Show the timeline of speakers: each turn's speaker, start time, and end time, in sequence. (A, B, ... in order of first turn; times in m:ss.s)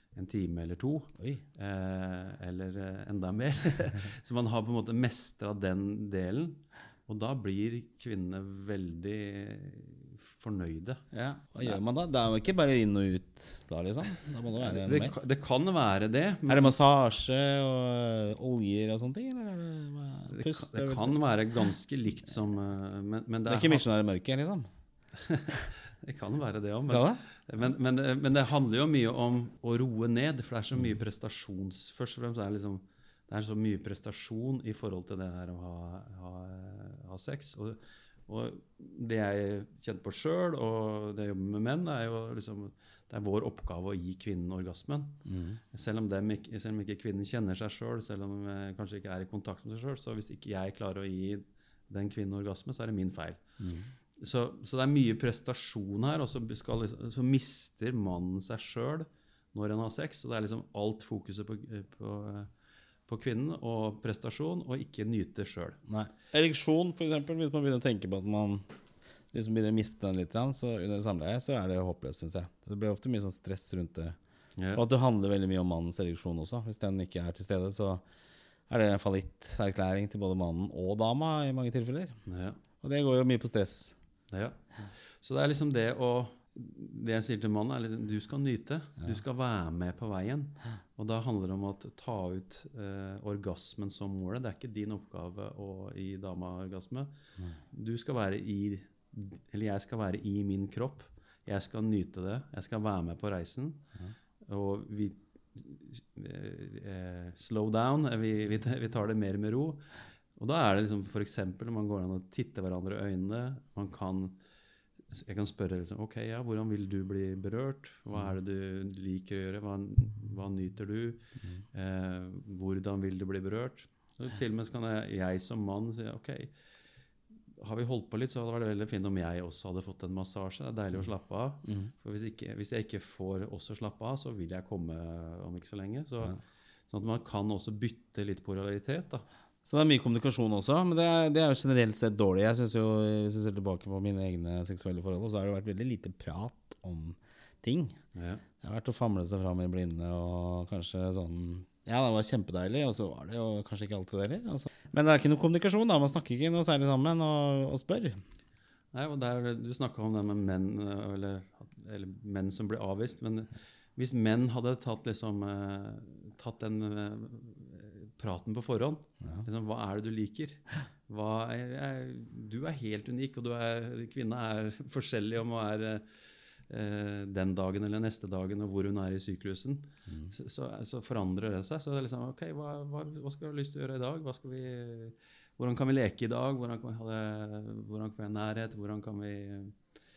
0:00.2-0:11.0 A
0:11.1-0:15.2 B
0:14.6-0:16.8 A
0:16.5-0:21.2 B
0:20.3-0:23.8 A
0:23.5-0:24.7 B
0:25.2-0:45.2 A
0:26.9-0:27.2 B
0:45.3-0:45.6 B
0:45.7-0:53.5 A
0:53.6-0:53.9 B
0:54.2-1:02.5 A
1:03.1-1:05.8 A
1:05.9-1:08.6 B
1:09.3-1:14.2 B
1:14.6-1:14.8 A
1:14.7-1:18.0 B
1:18.7-1:22.2 B
1:22.3-1:22.6 A
1:22.8-1:24.0 B
1:24.3-1:37.1 A
1:37.7-1:43.8 A
1:44.5-1:49.8 A
1:50.4-1:54.4 A
1:55.1-2:01.2 A
2:01.7-2:06.5 A
2:07.6-2:16.4 A
2:11.6-2:11.9 B
2:16.9-2:19.2 A
2:19.6-2:28.0 B
2:28.2-2:28.4 A
2:28.6-2:38.2 B
2:38.9-2:56.0 A
2:56.7-3:09.8 A